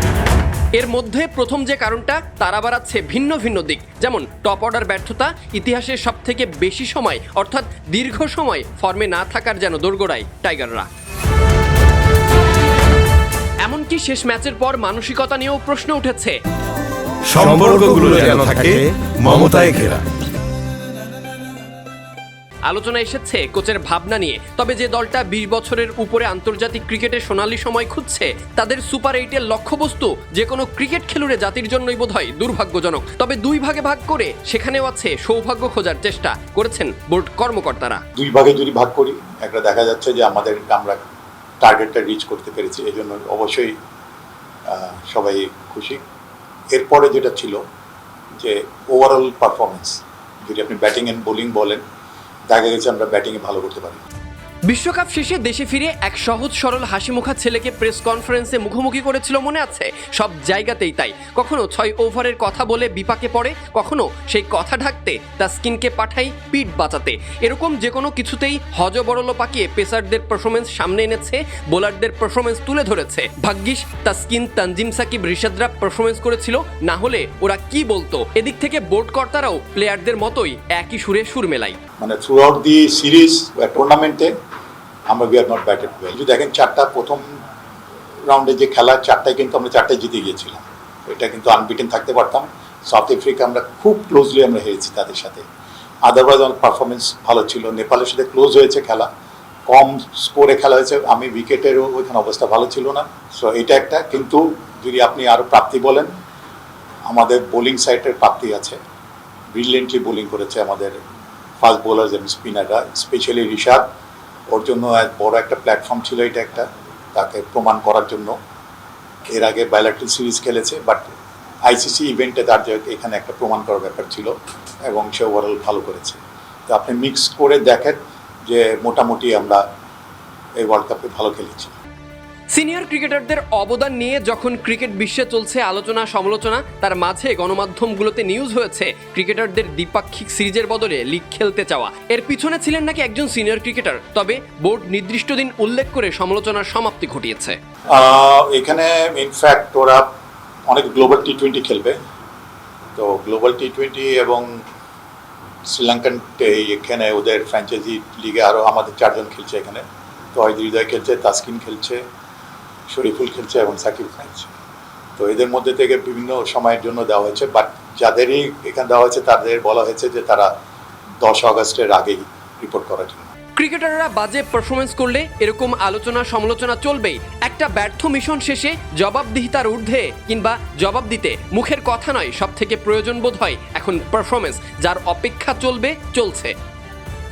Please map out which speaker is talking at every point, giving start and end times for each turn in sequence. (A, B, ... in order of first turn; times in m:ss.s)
0:00.7-0:10.9 A
0:13.6-0:16.4 A
0:17.3-0:20.0 B
0:22.6-0:38.0 A
0:38.2-0:41.0 C
0:41.6-0:43.7 C
0:44.7-0:46.0 C
0:46.7-0:47.6 C
0:48.4-0:51.8 C
0:52.5-0:54.0 C
0:54.7-1:21.8 A
1:22.0-1:24.3 C
1:25.1-1:27.2 C
1:28.3-1:35.4 C
1:36.1-1:39.1 C
1:39.7-1:46.1 C
1:47.1-1:48.8 C
1:49.5-1:50.9 C
1:51.6-1:53.8 C
1:54.5-1:58.4 C
1:59.3-2:01.1 C
2:01.6-2:04.3 C
2:04.9-2:09.6 C
2:10.6-2:11.7 C
2:12.5-2:27.6 A
2:27.9-2:30.1 C
2:30.7-2:32.0 C
2:33.0-2:34.5 C
2:35.7-2:42.0 C
2:42.9-2:44.5 C
2:45.2-2:50.5 C
2:51.2-2:53.3 C
2:53.6-3:06.6 A